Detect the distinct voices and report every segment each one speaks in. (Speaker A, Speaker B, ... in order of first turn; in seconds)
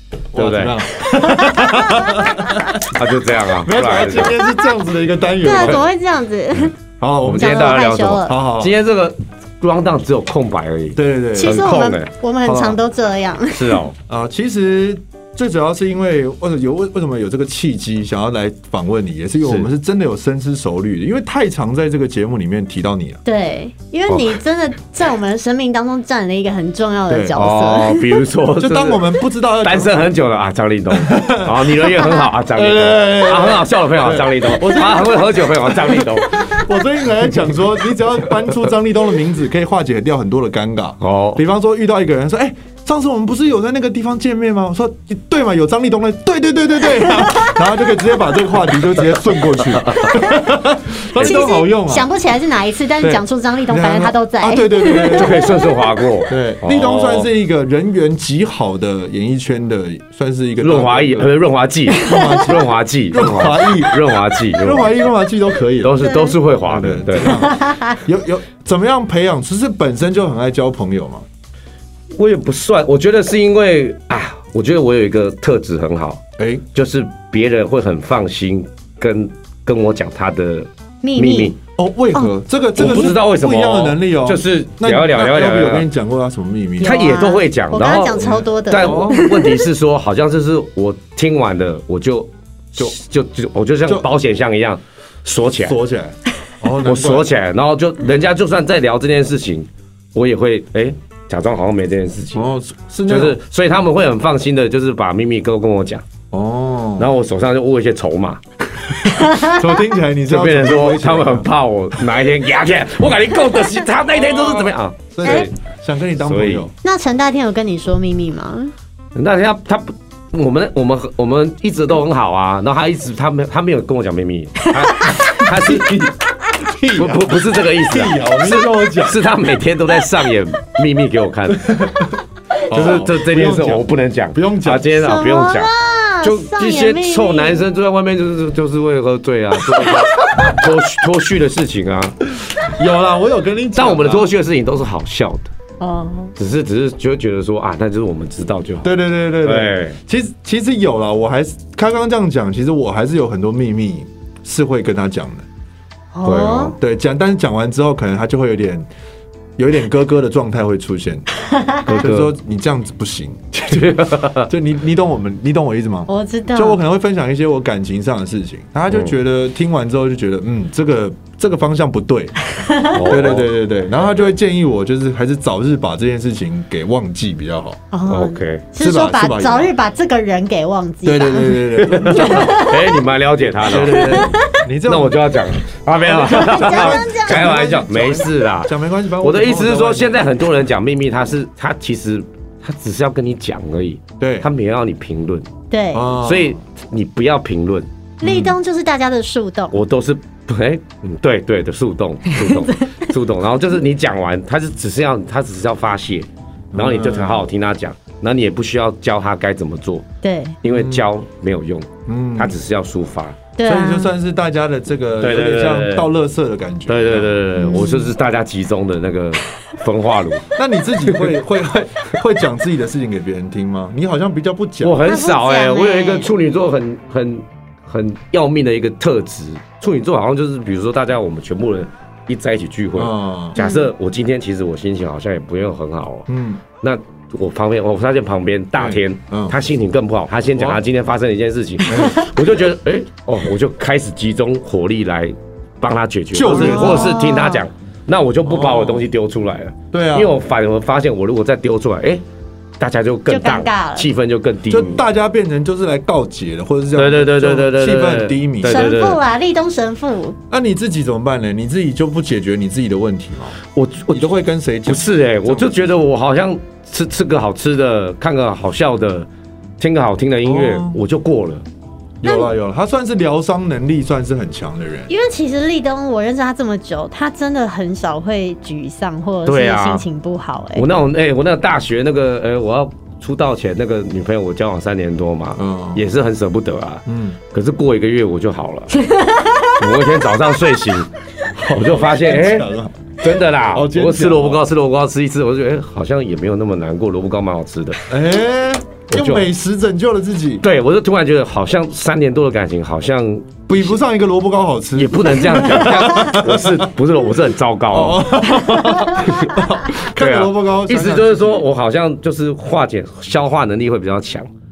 Speaker A: 0.3-5.9, 7.0-7.7, 8.3-8.7, 11.0-11.7, 12.4-12.8, 14.1-23.2, 27.1-27.4, 28.6-30.1, 30.9-31.9, 32.5-52.1, 53.0-55.4, 56.3-61.3, 62.0-66.0, 66.6-71.2, 76.4-76.7, 81.8-87.0, 88.2-89.2, 95.6-97.3, 102.3-103.4, 106.3-107.1, 109.0-111.5, 115.1-116.7, 125.2-129.2, 131.6-132.1, 132.7-134.9, 142.6-144.3, 148.8-155.5, 156.8-158.9, 159.6-161.3, 161.9-177.8, 178.8-179.7, 181.0-182.6, 183.6-185.2, 186.0-190.3, 194.2-194.5, 195.9-196.6, 198.2-198.6, 206.7-207.5, 210.7-211.1, 212.1-212.6, 213.6-217.9, 220.6-225.0, 233.0-233.6, 236.3-236.6, 238.8-239.6, 241.8-242.2, 246.3-247.3, 248.4-249.1, 249.9-250.4, 254.7-259.0, 260.5-263.6, 264.1-265.9, 270.4-271.0, 272.2-275.1, 285.6-286.1, 287.1-287.4, 291.6-293.1, 293.7-294.6, 298.1-300.6, 303.7-306.9, 307.9-311.6
Speaker B: 0.3-0.9, 2.8-4.4, 7.2-12.1, 13.5-14.0, 19.4-19.7, 24.1-24.4, 27.4-36.5, 41.0-41.4, 49.7-50.1, 51.2-51.5, 55.1-57.3, 60.6-65.1, 65.8-67.5, 72.1-76.2, 76.8-81.6, 82.8-85.9, 86.8-95.8, 96.8-102.5, 103.1-106.0, 107.0-108.4, 110.2-115.5, 116.2-116.7, 119.1-125.9, 127.0-131.7, 132.7-142.2, 143.8-145.5, 146.4-150.0, 156.2-156.8, 161.9-162.3, 163.7-164.5, 172.9-173.5, 178.1-178.7, 181.8-195.5, 196.1-197.9, 199.7-210.1, 210.6-213.4, 215.2-216.1, 216.9-220.5, 221.0-221.3, 224.8-236.3, 236.8-252.2, 252.8-255.0, 257.0-259.2, 263.7-269.3, 269.8-271.6, 279.5-280.1, 280.8-288.9, 289.8-291.1, 291.7-292.7, 293.2-298.0, 299.1-299.5, 300.6-304.0, 305.0-308.5, 310.0-314.5
Speaker C: 5.4-6.7, 7.3-8.3, 11.3-13.8, 23.2-28.2, 46.9-47.6, 51.2-55.7, 61.9-62.5, 66.0-66.4, 67.3-68.0, 81.0-81.5, 86.8-89.7, 115.2-115.5, 116.8-118.7, 135.0-137.7, 145.8-146.3, 156.1-156.8, 166.1-166.8, 172.6-173.1, 177.9-182.9, 183.7-184.6, 186.1-187.6, 195.7-196.1, 198.2-199.8, 202.3-203.1, 210.2-210.6, 213.6-214.1, 217.6-218.1, 225.0-226.3, 233.6-233.9, 246.4-247.7, 253.3-254.1, 258.7-260.4, 272.2-272.5, 275.1-280.9, 289.0-289.8